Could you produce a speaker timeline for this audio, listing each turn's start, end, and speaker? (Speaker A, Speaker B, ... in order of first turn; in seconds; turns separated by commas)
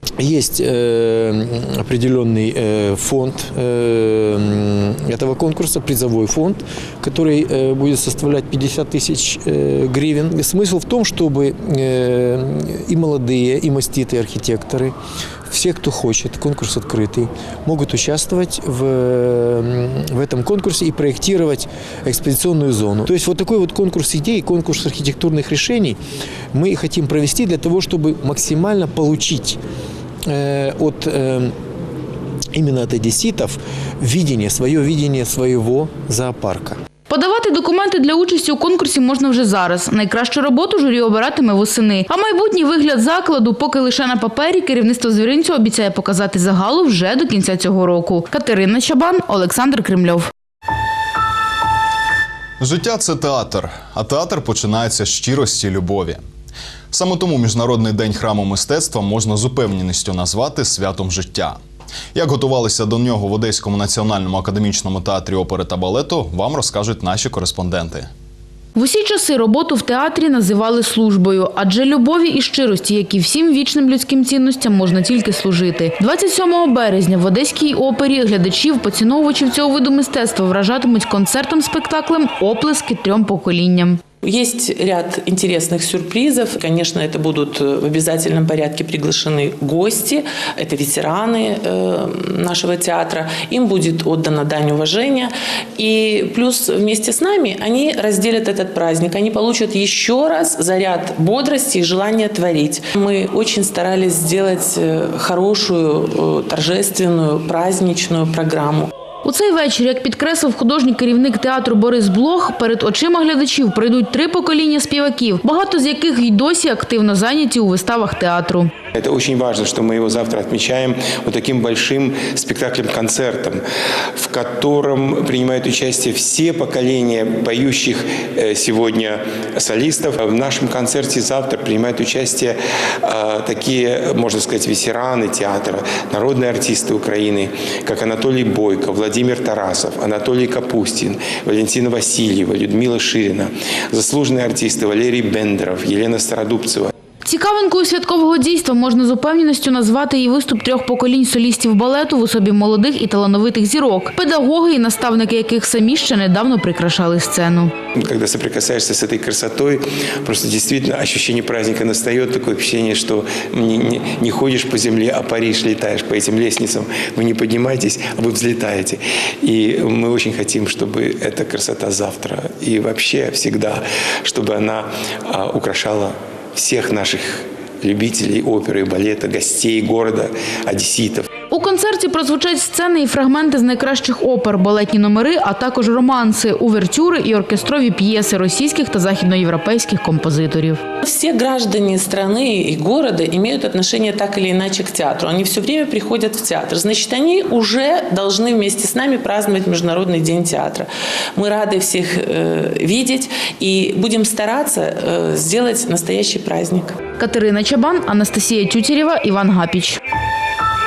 Speaker A: 0.2-14.9, Speaker A: 15.5-26.0, Speaker A: 26.5-29.6, Speaker A: 30.3-31.5, Speaker A: 32.5-36.8, Speaker B: 37.1-50.3, Speaker C: 52.6-56.2, Speaker C: 56.9-61.6, Speaker C: 62.1-68.1, Speaker B: 68.8-84.0, Speaker D: 84.2-108.9, Speaker B: 109.2-118.7, Speaker E: 119.0-123.6, Speaker E: 124.2-146.9, Speaker B: 147.2-157.7, Speaker E: 158.0-181.3, Speaker B: 181.5-190.8, Speaker D: 191.0-207.0, Speaker B: 207.2-210.0